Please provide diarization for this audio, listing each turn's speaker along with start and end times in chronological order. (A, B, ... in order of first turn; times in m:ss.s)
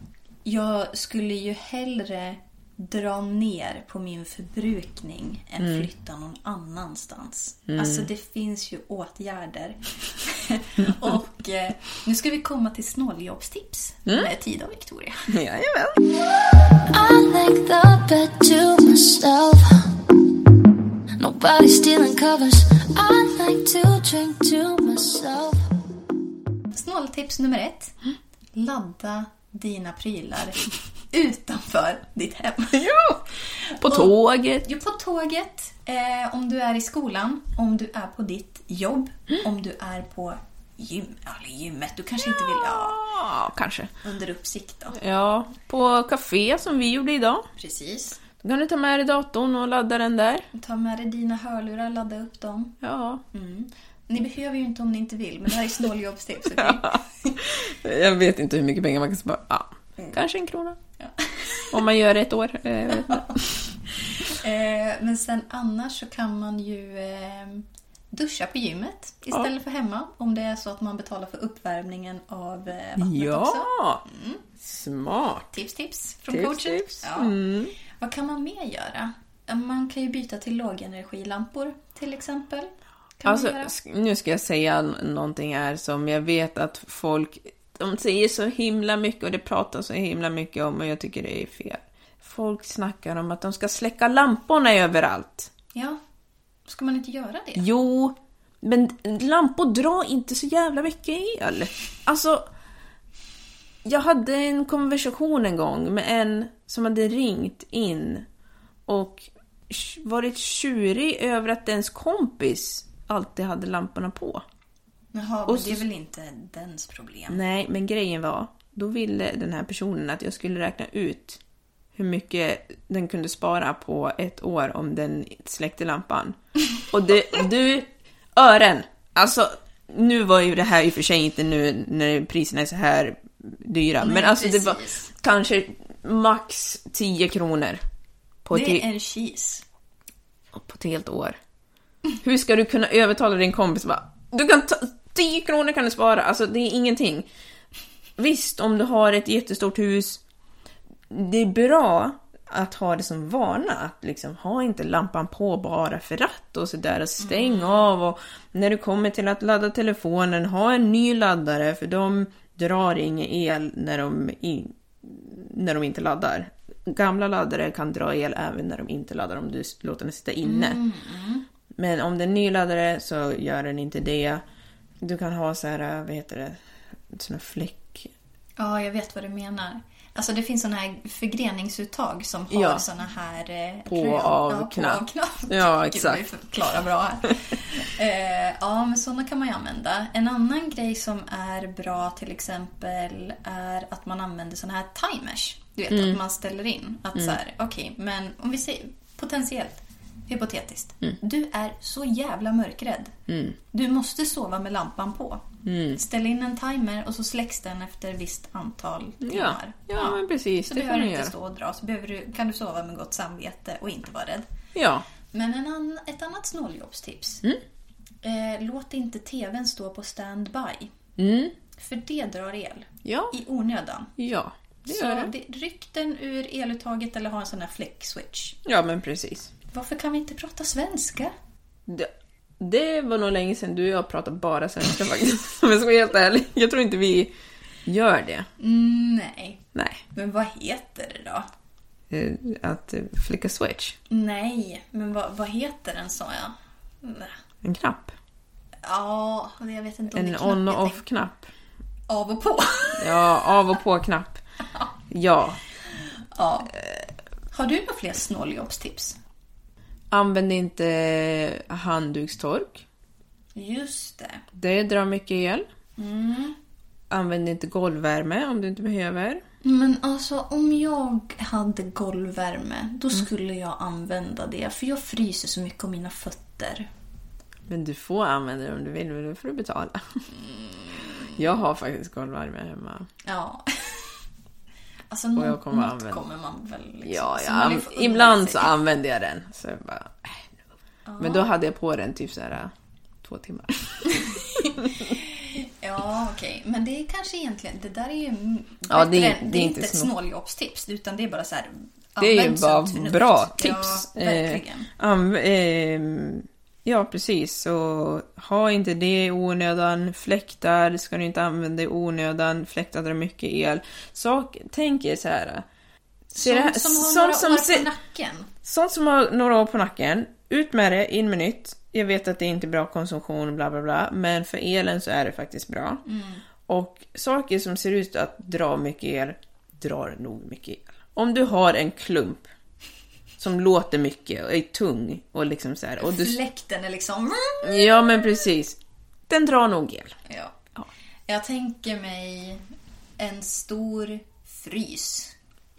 0:00.4-0:15.3 A
0:05.6-0:05.9 B
0:07.7-0:08.1 B
0:15.3-0:16.0 B
0:16.9-0:19.9 C
0:21.2-0:25.7 C
0:26.7-0:27.9 A
0:28.5-0:32.9 A
0:32.7-0:33.2 B
0:33.6-0:43.0 A
0:33.8-0:34.7 B
0:42.3-0:43.9 B
0:44.0-0:45.0 A
0:44.9-0:47.5 B
0:47.6-0:48.2 A
0:48.4-0:50.5 B
0:50.5-0:52.8 A
0:52.8-0:53.2 B
0:53.3-0:57.4 A
0:56.6-1:00.8 B
1:01.0-1:01.8 A
1:01.7-1:03.6 B
1:02.9-1:03.4 A
1:04.2-1:14.4 A
1:13.0-1:14.0 B
1:14.6-1:15.5 B
1:15.5-1:23.7 A
1:16.3-1:17.7 B
1:23.2-1:35.5 B
1:35.7-1:36.0 A
1:36.7-1:37.6 A
1:37.6-1:42.5 B
1:43.8-1:48.3 B
1:48.9-1:54.4 B
1:55.1-1:57.4 A
1:55.5-1:55.8 B
1:57.3-2:01.4 B
2:02.0-2:17.8 B
2:14.0-2:15.2 A
2:18.4-2:18.9 B
2:18.5-2:19.6 A
2:20.5-2:21.4 B
2:22.2-2:27.3 B
2:28.2-2:30.2 B
2:31.1-2:50.8 B
2:37.2-2:37.9 A
2:50.4-2:51.4 A
2:51.7-2:54.4 B
2:55.0-2:58.1 B
2:58.6-3:23.1 A
3:02.5-3:02.8 B
3:03.9-3:06.2 B
3:15.9-3:16.2 B
3:23.3-3:23.6 B
3:23.7-3:34.5 A
3:25.6-3:26.0 B
3:29.2-3:31.3 B
3:34.8-3:35.1 B
3:35.3-3:37.4 A
3:38.2-3:40.9 A
3:41.2-3:41.6 B
3:41.8-3:44.1 A
3:43.0-3:43.3 B
3:44.2-3:45.3 B
3:44.9-3:48.6 A
3:48.6-3:49.5 B
3:49.7-3:51.3 A
3:51.9-3:57.3 B
3:57.9-3:58.5 B
3:58.6-3:59.6 A
3:59.8-4:00.0 B
4:00.1-4:01.5 A
4:02.1-4:04.0 B
4:04.1-4:07.3 A
4:07.6-4:08.2 B
4:08.8-4:11.0 A
4:10.1-4:11.5 B
4:12.1-4:13.4 A
4:13.0-4:14.4 B
4:15.1-4:15.6 B
4:16.3-4:16.7 A
4:17.5-4:19.2 A
4:20.1-4:22.8 B
4:23.6-4:24.4 A
4:24.5-4:25.7 B
4:26.0-4:26.6 A
4:27.1-4:29.4 B
4:29.6-4:36.9 A
4:37.7-4:40.2 B
4:40.3-4:41.4 A
4:41.4-4:43.1 B
4:43.2-4:44.1 A
4:45.1-4:48.8 A
4:45.4-4:46.3 B
4:47.0-4:50.6 B
4:51.1-4:51.5 A
4:51.2-4:54.9 B
4:54.1-5:04.9 A
4:58.9-5:00.1 B
5:02.2-5:15.7 B
5:16.3-5:17.9 B
5:16.3-5:18.5 A
5:18.6-5:26.0 B
5:26.0-5:26.4 A
5:26.7-5:32.5 B
5:33.4-5:36.4 B
5:36.0-5:37.9 A
5:37.6-5:40.2 B
5:40.3-5:40.5 A
5:41.3-5:42.6 A
5:43.2-5:45.3 A